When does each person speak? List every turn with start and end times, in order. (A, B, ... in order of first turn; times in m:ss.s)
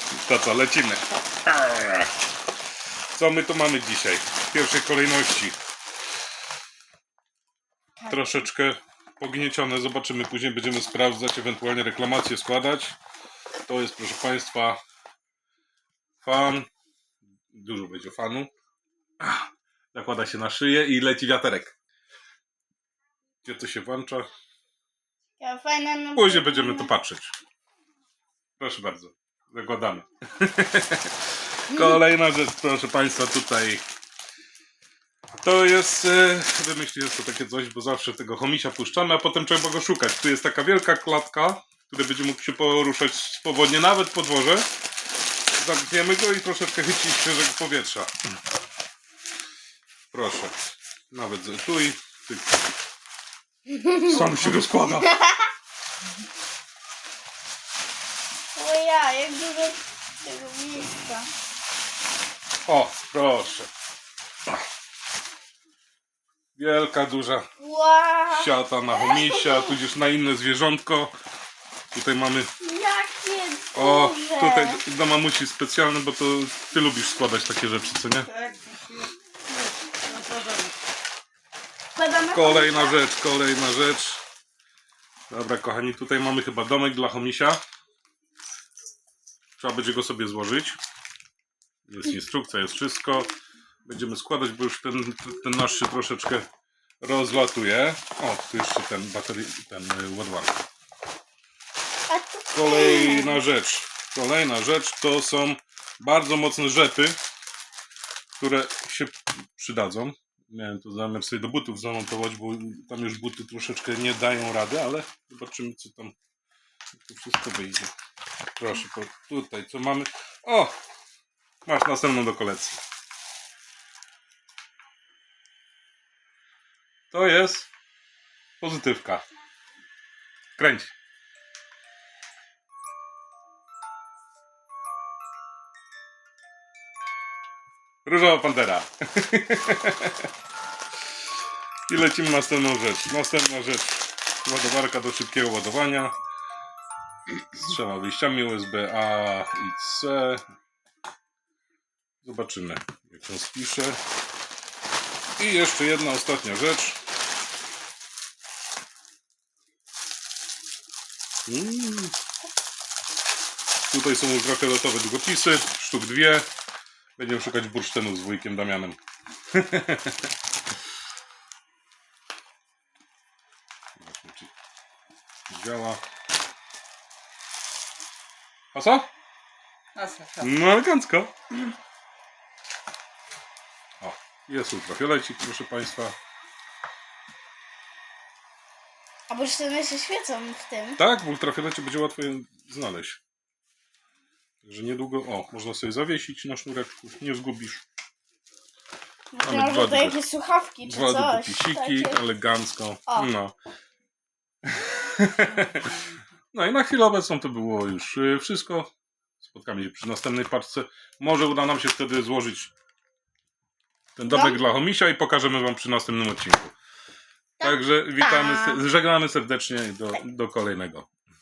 0:00.2-0:02.1 A
0:03.1-0:05.6 A
0:08.0-0:08.3 B
0:08.1-0:13.0 A
0:13.6-0:14.8 A
0:16.2-0:16.7 A
0:17.5-0:18.5 A
0:19.2-0:21.7 A
0:23.4-0:24.3 A
0:25.4-0:26.9 B
0:26.2-0:27.3 A
0:28.6-0:33.8 A
0:31.7-0:32.0 B
0:35.4-0:44.7 A
0:45.6-0:48.1 A
0:50.1-0:50.6 A
0:51.1-0:52.6 A
0:53.7-0:54.3 B
0:54.0-0:55.2 A
0:55.1-0:55.4 B
0:58.5-1:01.3 B
1:02.6-1:03.7 A
1:06.6-1:07.5 A
1:07.6-1:09.8 B
1:08.3-1:11.1 A
1:11.9-1:12.5 A
1:12.6-1:14.8 B
1:13.7-1:18.3 A
1:18.3-1:19.1 C
1:19.9-1:20.7 C
1:22.0-1:23.0 B
1:22.3-1:24.2 A
1:25.3-1:27.6 A
1:29.6-1:30.8 A
1:31.8-1:33.3 A
1:33.8-1:36.4 A
1:37.0-1:40.5 A
1:42.1-1:43.4 B
1:42.5-1:47.2 A
1:48.4-1:56.1 A
1:57.0-1:57.9 A
1:58.6-2:00.8 A
2:01.6-2:02.8 A
2:07.1-2:07.7 A
2:08.6-2:09.2 A
2:10.6-2:10.9 A
2:18.0-2:20.3 A
2:21.9-2:26.1 A
2:27.5-2:30.4 A
2:32.2-2:34.0 A
2:35.4-2:37.0 A
2:41.5-2:42.1 A
2:43.9-2:46.5 A
2:47.2-2:49.0 A
2:49.5-2:50.3 A
2:54.0-2:54.5 A
2:55.5-2:56.0 A
2:58.7-2:59.1 A
2:59.9-3:00.4 C
3:00.4-3:01.3 A
3:04.0-3:06.1 A
3:09.3-3:11.0 B
3:11.0-3:13.2 A
3:14.6-3:17.8 A
3:19.3-3:22.2 B
3:19.4-3:20.2 A
3:20.8-3:23.5 A
3:24.6-3:25.9 A
3:25.6-3:25.9 C
3:26.5-3:28.9 A
3:29.4-3:32.7 A
3:34.2-3:36.7 A
3:34.2-3:34.6 B
3:37.6-3:38.8 B
3:37.6-3:41.0 A